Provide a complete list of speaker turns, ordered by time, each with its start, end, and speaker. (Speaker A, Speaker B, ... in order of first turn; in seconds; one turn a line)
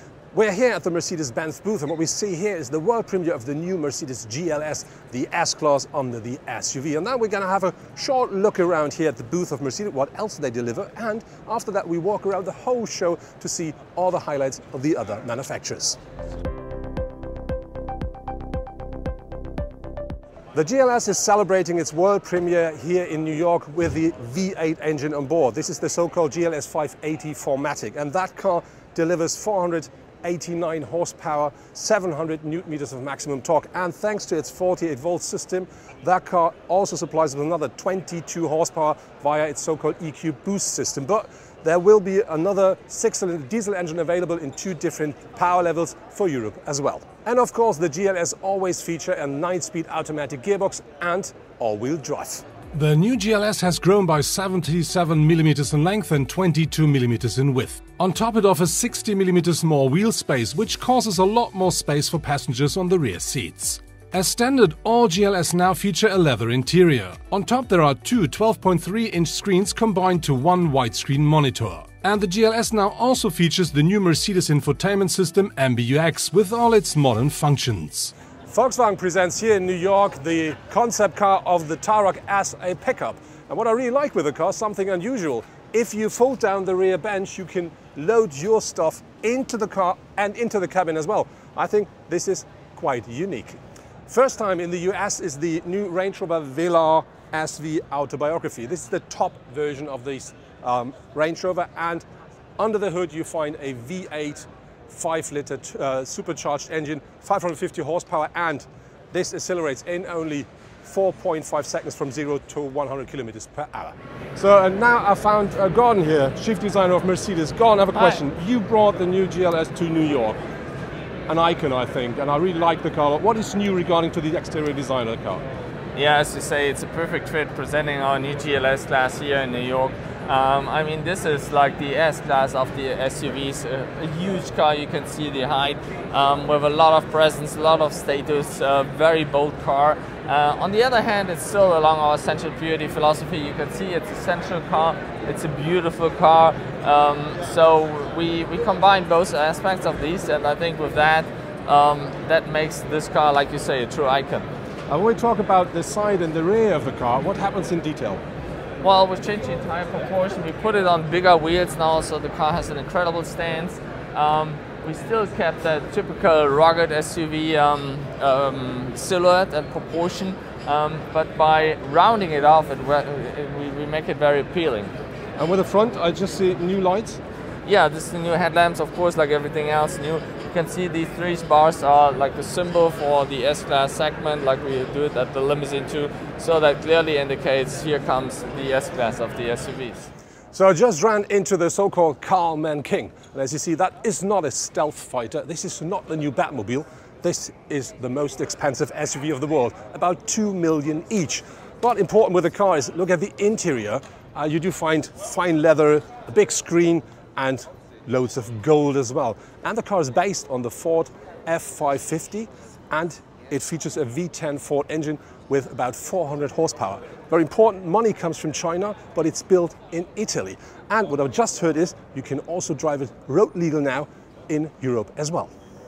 Speaker A: 0.3-16.0
Speaker A: 20.5-52.5
Speaker B: 52.7-78.1
Speaker A: 78.5-102.1
Speaker A: 102.6-120.4
Speaker A: 121.3-125.4
Speaker C: 126.0-154.5
Speaker A: 154.9-158.2
Speaker C: 158.8-174.9
Speaker A: 175.4-177.2
Speaker C: 177.7-190.1
Speaker A: 190.5-225.5